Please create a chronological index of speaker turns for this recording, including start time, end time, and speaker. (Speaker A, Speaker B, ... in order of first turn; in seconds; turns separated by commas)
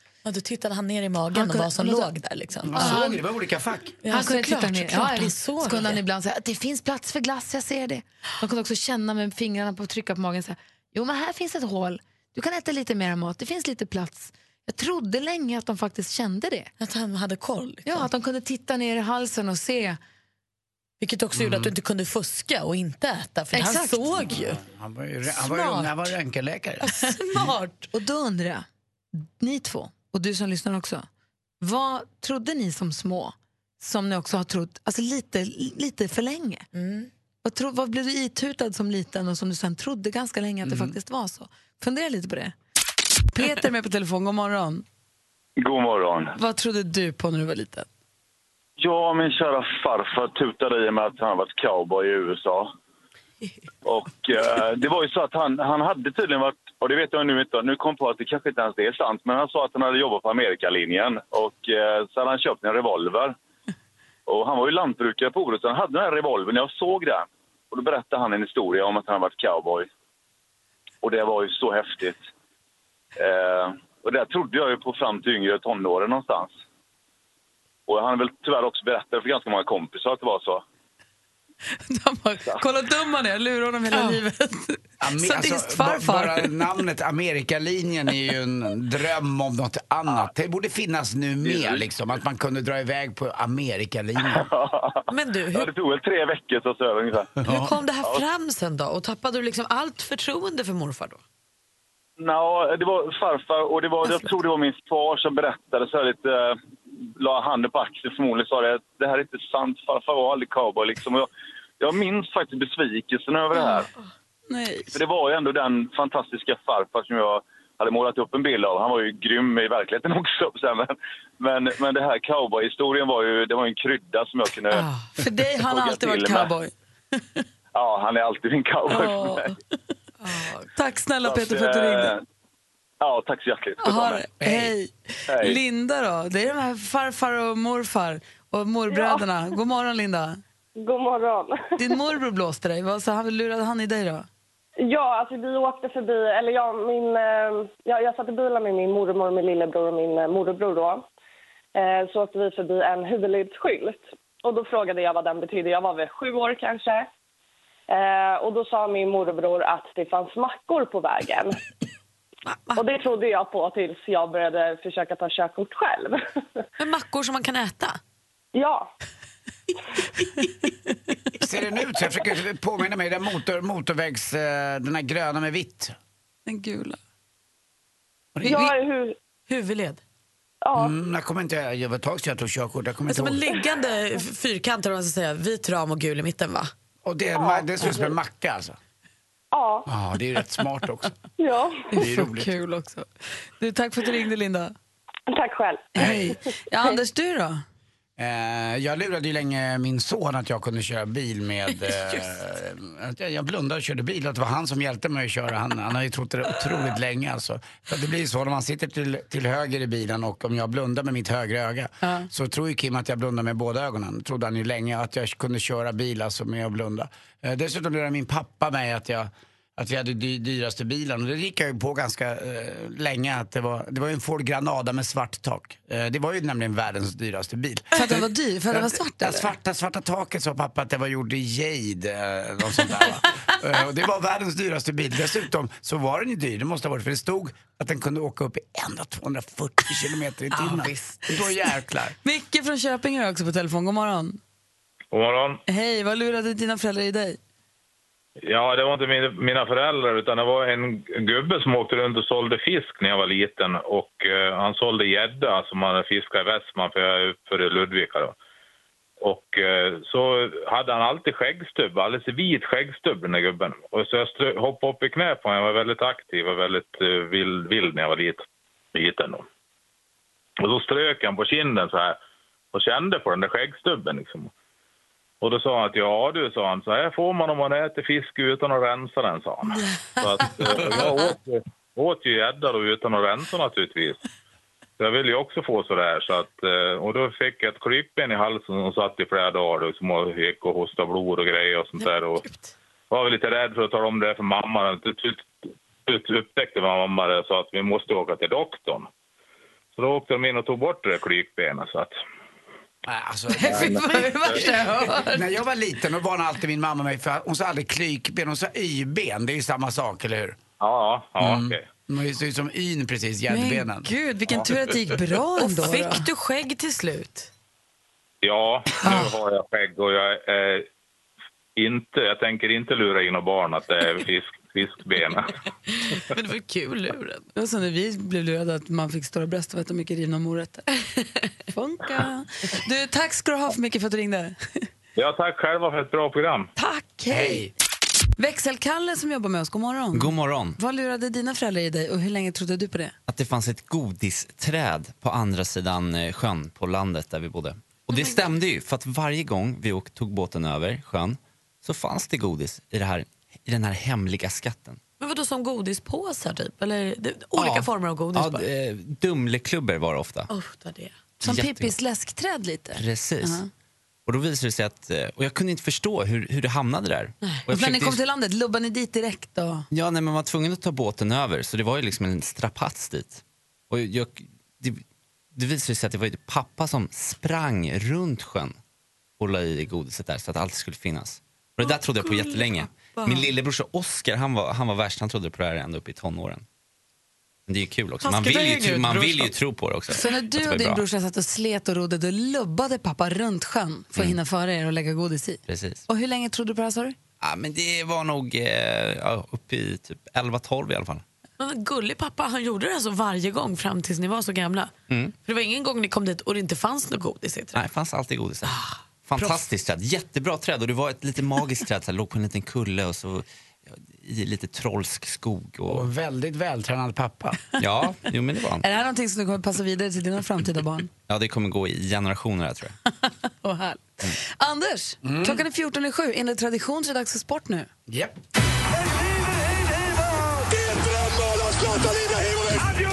Speaker A: 0.2-3.0, Speaker B: 1.3-2.1, Speaker C: 2.6-3.9, Speaker B: 2.7-3.2, Speaker A: 4.0-6.0, Speaker B: 4.1-16.7, Speaker A: 16.8-18.1, Speaker B: 17.8-20.0, Speaker A: 21.0-24.6, Speaker C: 21.3-21.7, Speaker B: 23.5-24.3, Speaker C: 24.3-27.5, Speaker A: 25.4-26.1, Speaker A: 26.8-27.9, Speaker B: 27.9-28.6, Speaker B: 29.4-31.1, Speaker B: 31.6-36.6, Speaker A: 36.7-37.1, Speaker B: 37.4-42.5, Speaker C: 40.6-40.9, Speaker B: 43.3-44.8, Speaker D: 45.6-46.3, Speaker B: 46.3-47.9, Speaker D: 48.8-52.7, Speaker D: 53.8-63.3, Speaker D: 64.3-69.9, Speaker D: 71.0-72.2, Speaker D: 73.2-76.5, Speaker D: 77.9-80.6, Speaker B: 81.8-86.5, Speaker A: 83.9-84.2, Speaker C: 85.0-94.5, Speaker D: 91.4-91.8, Speaker D: 94.3-97.3, Speaker A: 95.1-95.7, Speaker C: 97.4-97.7, Speaker A: 97.4-101.2, Speaker D: 102.2-111.3, Speaker D: 111.8-113.9, Speaker A: 113.6-113.8, Speaker B: 114.5-114.9, Speaker D: 114.9-124.9, Speaker A: 124.7-125.1, Speaker B: 125.2-126.7, Speaker D: 125.6-126.5, Speaker D: 127.7-129.6, Speaker A: 128.9-129.5, Speaker A: 130.2-130.7, Speaker B: 130.7-132.1, Speaker D: 131.2-132.2, Speaker D: 133.0-134.2, Speaker B: 133.8-140.4, Speaker C: 134.4-134.7, Speaker D: 135.3-135.6, Speaker E: 138.9-139.2, Speaker E: 140.8-141.7, Speaker B: 141.8-144.3, Speaker E: 144.8-151.0, Speaker E: 151.7-157.1, Speaker E: 157.9-161.6, Speaker A: 162.4-162.8, Speaker E: 162.8-166.4, Speaker A: 166.8-168.0, Speaker E: 168.5-168.9, Speaker C: 171.4-175.9, Speaker B: 176.4-177.0, Speaker C: 178.3-178.7, Speaker E: 178.4-179.2, Speaker A: 179.5-180.0, Speaker E: 180.6-180.9, Speaker C: 180.7-183.4, Speaker A: 183.1-186.7, Speaker C: 187.0-188.8, Speaker E: 187.3-188.2, Speaker E: 189.5-189.9, Speaker C: 189.8-191.1, Speaker E: 191.4-192.1, Speaker B: 191.9-194.7, Speaker C: 192.0-192.5, Speaker E: 195.3-196.3, Speaker B: 195.9-197.6, Speaker C: 196.0-196.4, Speaker C: 198.2-242.2, Speaker A: 201.9-202.2, Speaker B: 227.9-229.5, Speaker A: 240.7-241.1, Speaker B: 242.2-244.4, Speaker F: 245.1-245.6, Speaker B: 245.7-247.4, Speaker F: 248.4-258.3, Speaker F: 259.2-269.4, Speaker F: 270.6-272.2, Speaker F: 272.7-274.5, Speaker F: 275.4-284.2, Speaker F: 285.0-292.4, Speaker A: 292.0-292.7, Speaker F: 293.1-295.5, Speaker F: 296.1-299.1, Speaker F: 299.9-302.1, Speaker C: 303.0-310.6, Speaker B: 303.5-305.4, Speaker F: 303.7-304.6, Speaker F: 310.8-311.9, Speaker C: 311.4-314.1, Speaker B: 313.5-316.3, Speaker A: 315.6-317.5, Speaker F: 318.4-320.9, Speaker F: 321.8-325.5, Speaker A: 325.9-327.4, Speaker B: 327.5-330.9, Speaker B: 331.7-334.6, Speaker F: 335.1-336.7, Speaker B: 336.8-337.6, Speaker C: 337.3-337.7, Speaker B: 338.4-343.1, Speaker G: 340.1-340.8, Speaker G: 343.3-355.0, Speaker A: 355.2-358.6, Speaker G: 357.6-360.5, Speaker A: 360.5-361.2, Speaker B: 361.4-363.6, Speaker G: 361.4-361.9, Speaker G: 362.9-363.6, Speaker G: 364.2-368.2, Speaker B: 367.7-369.8, Speaker G: 369.9-375.0, Speaker G: 375.5-378.8, Speaker G: 379.4-386.6, Speaker A: 381.8-383.5, Speaker G: 387.7-391.0, Speaker A: 388.2-389.5, Speaker B: 390.1-397.1, Speaker G: 395.7-396.0, Speaker G: 397.4-401.2, Speaker A: 401.6-407.8, Speaker G: 405.1-405.3, Speaker G: 407.7-416.1, Speaker A: 408.6-409.5, Speaker C: 415.9-417.6, Speaker G: 417.8-418.8, Speaker B: 418.8-421.1, Speaker G: 421.3-422.9, Speaker B: 423.2-427.9, Speaker C: 425.2-425.6, Speaker C: 428.1-428.4